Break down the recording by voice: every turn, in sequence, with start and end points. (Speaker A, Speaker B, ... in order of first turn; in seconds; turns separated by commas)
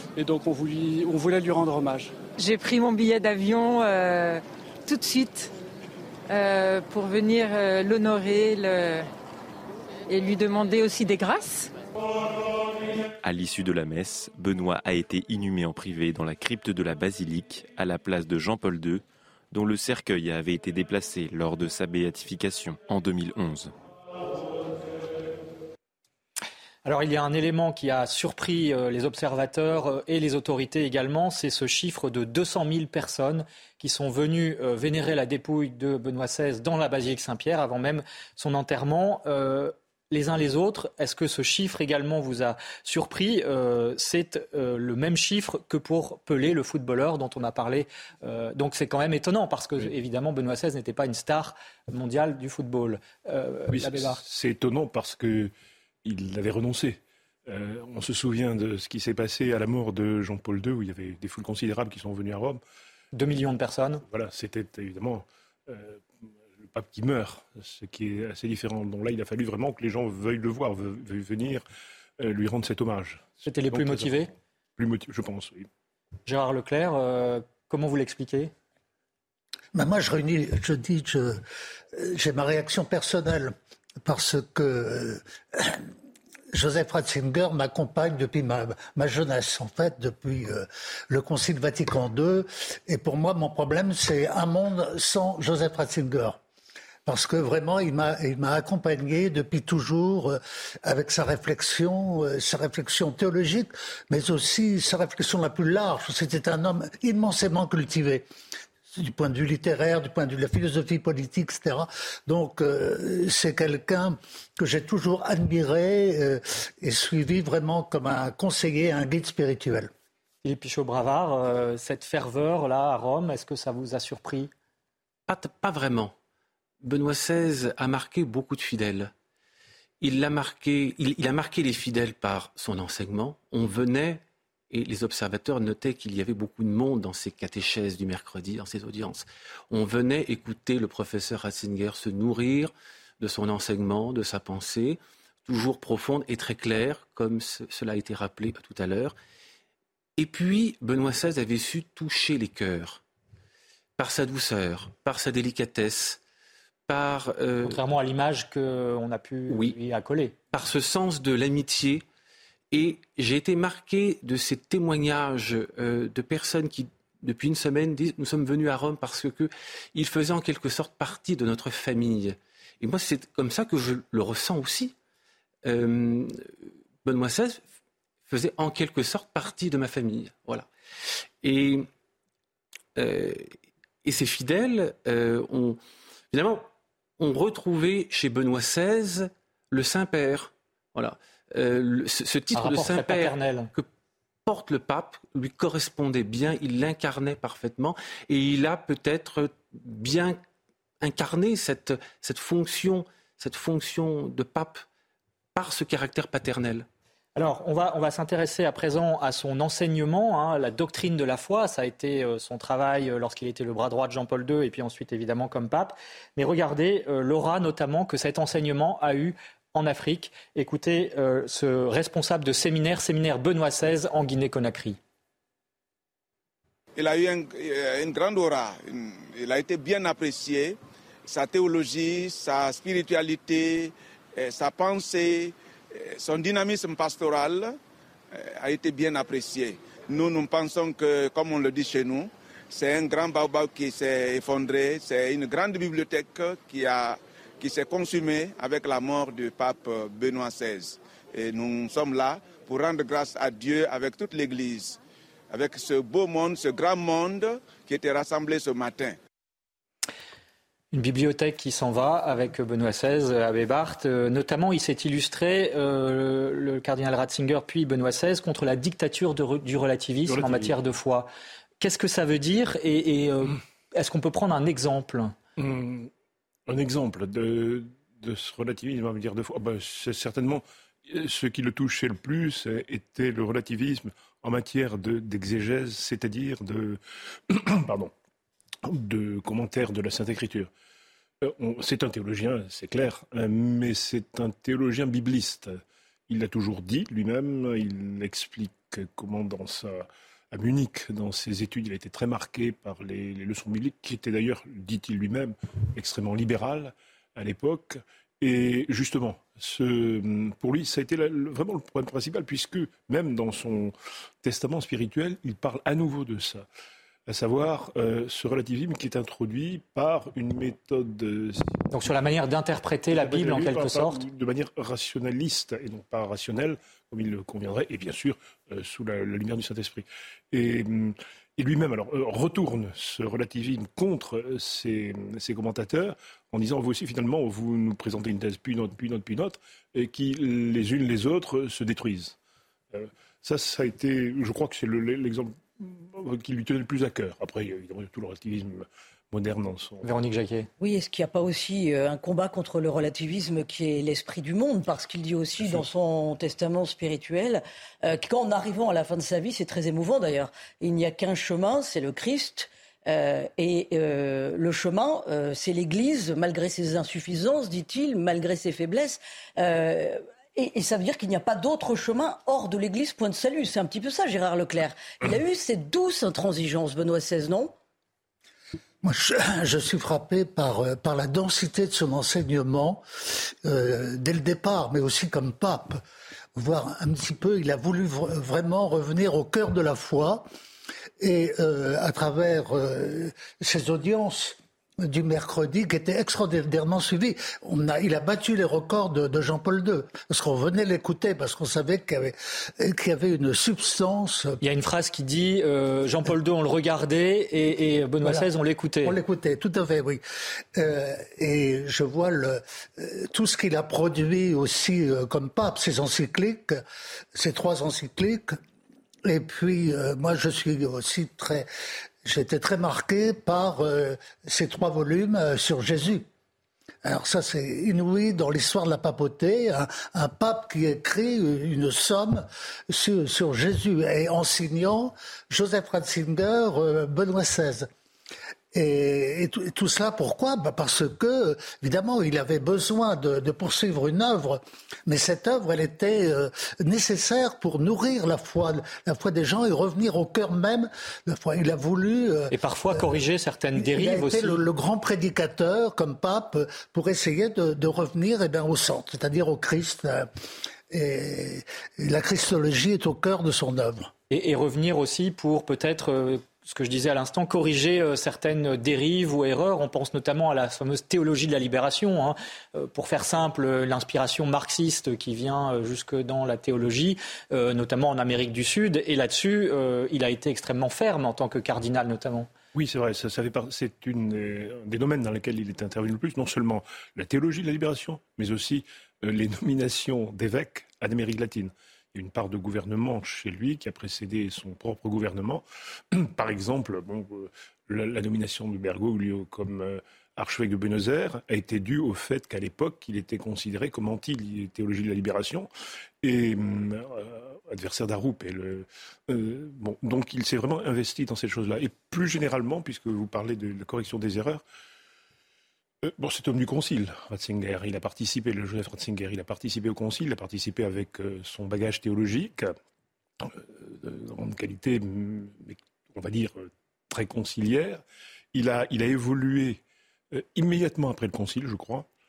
Speaker A: 0.1-2.1, Speaker B: 2.4-5.5, Speaker B: 6.3-9.1, Speaker B: 10.1-11.7, Speaker C: 13.2-23.7, Speaker D: 26.8-54.2, Speaker E: 53.7-55.5, Speaker E: 56.0-62.6, Speaker D: 63.1-64.0, Speaker E: 64.0-66.0, Speaker E: 66.6-71.6, Speaker E: 72.2-75.7, Speaker D: 73.4-74.3, Speaker D: 76.2-78.5, Speaker F: 79.7-81.4, Speaker F: 81.9-85.8, Speaker F: 86.5-96.4, Speaker F: 97.0-108.2, Speaker F: 108.9-119.9, Speaker D: 120.4-124.5, Speaker G: 125.3-126.1, Speaker G: 126.8-129.1, Speaker G: 130.0-149.1, Speaker G: 150.2-153.0, Speaker G: 154.0-156.2, Speaker G: 156.9-157.8, Speaker D: 157.6-160.3, Speaker G: 159.5-159.8, Speaker G: 160.5-162.0, Speaker G: 162.7-174.9, Speaker G: 175.6-176.4, Speaker G: 177.0-177.6, Speaker G: 178.3-180.7, Speaker G: 181.4-181.9, Speaker G: 182.9-183.5, Speaker G: 184.0-185.8, Speaker G: 186.3-186.7, Speaker G: 187.2-193.9, Speaker D: 192.5-193.7, Speaker G: 194.4-200.4, Speaker G: 201.0-204.8, Speaker G: 205.5-206.9, Speaker D: 207.3-225.0, Speaker H: 226.9-237.8, Speaker H: 238.3-255.0, Speaker H: 255.5-259.2, Speaker D: 260.9-271.3, Speaker E: 270.2-270.8, Speaker D: 271.8-275.3, Speaker E: 275.6-276.1, Speaker E: 276.7-288.1, Speaker E: 288.8-290.7, Speaker E: 291.4-316.6, Speaker E: 317.3-321.9, Speaker D: 321.9-324.2, Speaker E: 323.1-342.3, Speaker E: 342.9-350.1, Speaker D: 350.0-350.7, Speaker I: 350.8-377.7, Speaker F: 379.0-386.0, Speaker F: 386.5-390.5, Speaker F: 391.2-404.6, Speaker D: 404.6-409.1, Speaker F: 408.2-408.5, Speaker F: 409.0-410.2, Speaker F: 410.7-416.8, Speaker F: 417.3-418.5, Speaker F: 419.2-421.7, Speaker F: 422.2-426.2, Speaker F: 427.0-437.9, Speaker F: 438.7-453.2, Speaker D: 452.5-454.6, Speaker F: 453.8-460.3, Speaker F: 460.9-464.1, Speaker D: 464.3-482.5, Speaker E: 482.7-505.7, Speaker E: 506.2-514.6, Speaker E: 516.0-522.7, Speaker E: 523.4-528.0, Speaker E: 528.5-529.8, Speaker E: 530.3-532.1